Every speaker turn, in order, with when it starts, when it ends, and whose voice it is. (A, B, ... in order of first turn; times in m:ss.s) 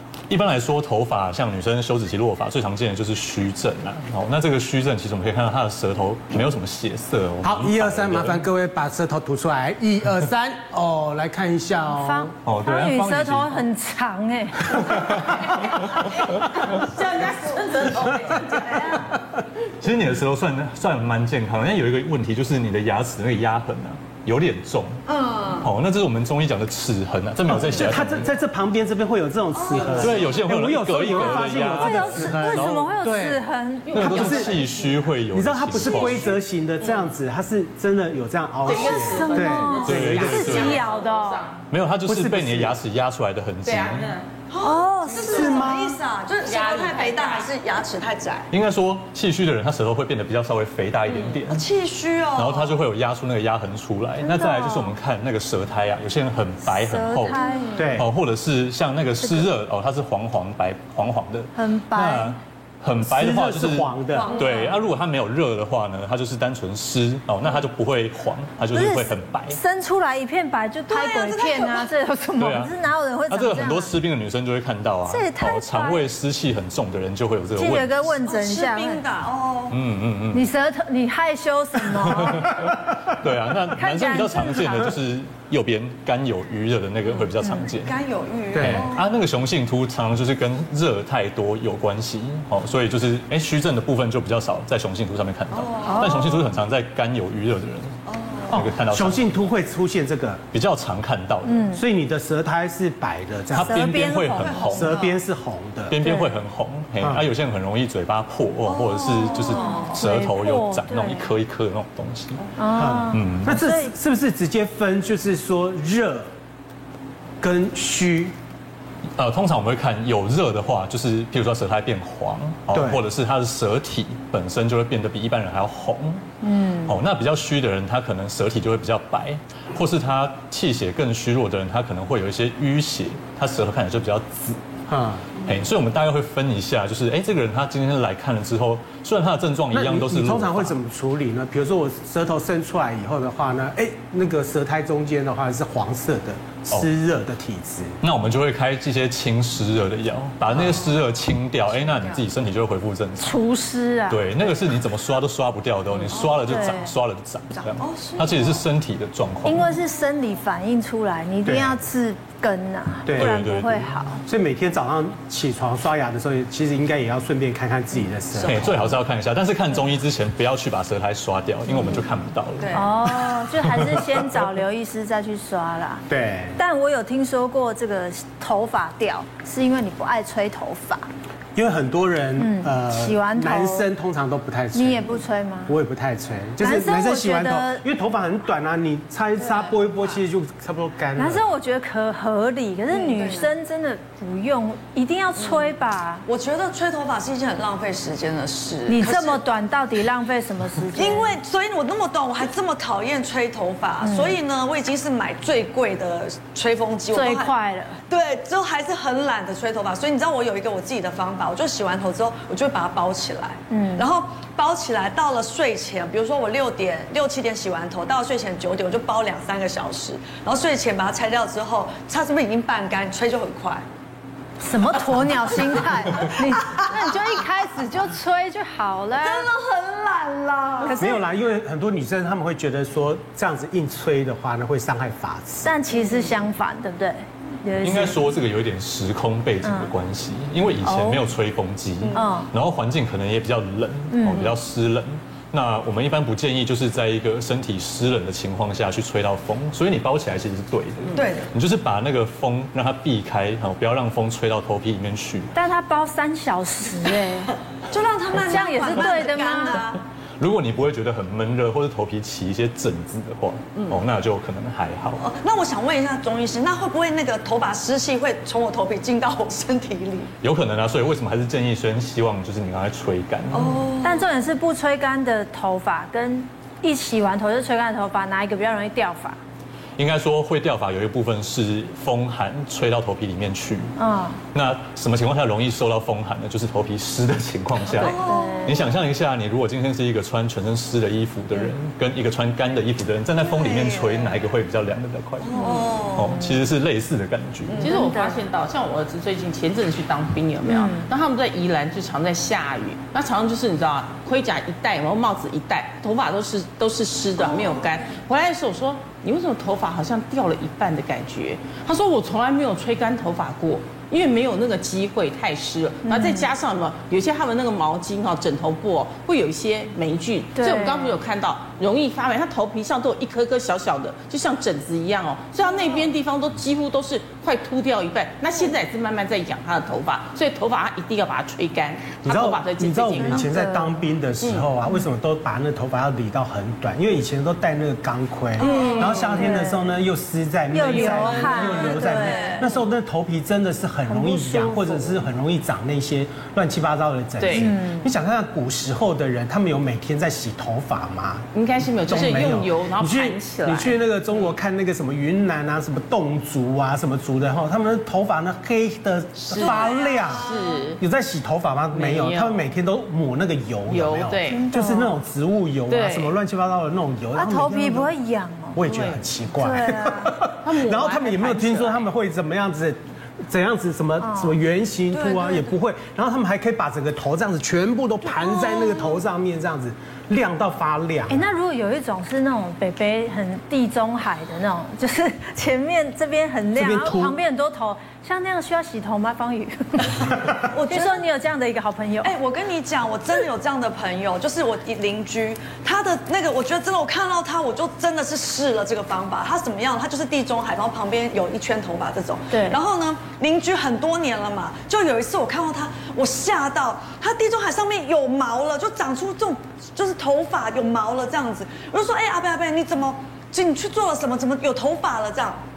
0:00.3-0:08.4 A
0:07.4-0:12.3 B
0:11.9-0:15.2 C
0:12.4-0:13.6 A
0:14.9-0:16.6 A
0:16.3-0:19.0 D
0:19.8-0:25.0 A
0:25.1-0:25.7 E
0:25.6-0:28.3 A
0:27.5-0:33.4 B
0:29.6-0:30.0 E
0:29.9-0:33.0 A
0:31.6-0:34.3 C
0:33.9-0:35.0 D
0:33.9-0:36.4 A
0:34.0-0:34.6 B
0:35.3-0:40.6 B
0:38.6-0:41.6 D
0:38.7-0:41.5 C
0:39.8-0:40.8 A
0:41.7-0:44.2 A
0:42.0-0:42.8 B
0:43.6-0:44.2 D
0:44.5-0:48.5 E
0:44.6-0:45.6 C
0:45.2-0:46.0 B
0:46.4-0:47.5 D
0:48.5-0:51.7 A
0:51.5-0:52.8 E
0:52.4-0:57.4 A
0:54.2-0:55.0 C
0:56.7-0:57.8 C
0:57.8-0:58.1 B
0:57.9-1:09.6 A
1:01.5-1:02.4 C
1:03.0-1:04.4 B
1:04.2-1:04.7 E
1:08.7-1:14.0 C
1:10.9-1:11.9 E
1:12.4-1:12.7 A
1:13.3-1:18.1 A
1:15.1-1:16.1 C
1:17.6-1:19.0 C
1:18.2-1:19.8 E
1:19.7-1:20.4 A
1:20.3-1:22.6 C
1:22.0-1:27.9 A
1:23.7-1:24.9 C
1:27.8-1:29.0 E
1:28.5-1:28.9 B
1:28.6-1:38.0 A
1:35.5-1:36.4 E
1:35.8-1:36.4 C
1:38.1-1:38.5 E
1:38.5-1:39.3 A
1:38.5-1:40.4 B
1:40.5-1:41.7 A
1:41.4-1:41.8 C
1:41.7-1:46.0 B
1:43.5-1:45.0 A
1:43.6-1:44.8 C
1:44.3-1:45.2 E
1:45.9-1:52.4 A
1:46.0-1:46.3 C
1:47.0-1:47.2 B
1:48.9-1:50.0 E
1:49.3-1:51.3 C
1:52.6-1:53.9 C
1:52.7-1:56.3 B
1:53.1-1:53.6 A
1:57.4-1:58.3 B
1:59.2-2:06.2 A
2:02.7-2:03.0 B
2:06.4-2:07.0 C
2:06.8-2:14.6 A
2:14.9-2:15.3 B
2:15.3-2:20.8 A
2:19.7-2:28.0 B
2:28.0-2:33.4 A
2:33.2-2:34.6 C
2:34.1-2:39.8 A
2:36.1-2:36.6 E
2:36.5-2:36.9 C
2:37.6-2:38.6 E
2:39.4-2:44.2 C
2:41.4-2:41.8 B
2:43.0-2:43.4 B
2:43.1-2:44.0 A
2:44.2-2:48.9 B
2:48.4-2:52.9 A
2:52.6-2:52.9 E
2:52.7-2:56.0 C
2:56.1-2:56.6 B
2:56.6-3:01.1 C
3:01.6-3:05.2 B
3:02.4-3:03.9 C
3:04.7-3:05.8 C
3:05.7-3:11.4 B
3:06.6-3:07.8 C
3:11.2-3:16.2 C
3:12.9-3:13.5 E
3:16.3-3:19.4 E
3:18.9-3:21.3 C
3:20.9-3:27.5 E
3:24.0-3:24.4 C
3:27.1-3:28.0 C
3:28.1-3:43.8 E
3:33.7-3:34.0 C
3:44.6-3:49.5 C
3:49.2-3:51.0 E
3:50.8-3:51.2 C
3:51.0-3:55.7 B
3:55.6-3:58.3 C
3:57.8-4:15.5 A
3:59.6-3:59.9 C
4:00.8-4:01.2 C
4:02.1-4:02.5 C
4:04.1-4:04.5 C
4:11.1-4:11.5 E
4:15.5-4:17.5 C
4:17.9-4:20.0 E
4:18.4-4:19.9 C
4:20.4-4:25.2 A
4:25.2-4:30.3 E
4:30.4-4:33.8 A
4:33.5-4:34.2 E
4:34.0-4:39.4 C
4:40.0-4:43.9 A
4:44.0-4:44.4 C
4:44.5-4:57.9 A
4:47.9-4:48.8 E
4:48.2-4:48.9 C
4:53.4-4:54.4 E
4:55.4-4:56.4 E
4:57.7-4:57.9 E
4:57.8-5:33.5 D
4:57.8-4:58.4 C
5:00.7-5:01.1 C
5:16.0-5:16.5 C
5:20.6-5:21.2 C
5:32.2-5:51.5 B
5:33.2-5:33.9 C
5:38.6-5:39.6 D
5:38.6-5:39.9 C
5:40.7-5:42.6 C
5:40.8-5:42.6 D
5:44.1-5:45.2 C
5:47.4-5:47.7 D
5:47.5-5:48.1 C
5:51.5-5:54.0 D
5:52.0-6:08.1 B
5:59.5-6:01.0 D
5:59.6-6:00.4 E
6:01.9-6:02.7 D
6:03.9-6:04.6 D
6:04.5-6:05.2 C
6:05.9-6:06.4 D
6:07.3-6:08.8 C
6:08.7-6:21.5 B
6:08.9-6:09.2 D
6:09.6-6:10.4 C
6:10.5-6:12.0 D
6:14.2-6:14.6 C
6:15.1-6:15.7 E
6:21.3-6:32.3 C
6:26.8-6:27.4 B
6:30.6-6:31.2 E
6:32.2-6:55.6 E
6:42.5-6:42.8 C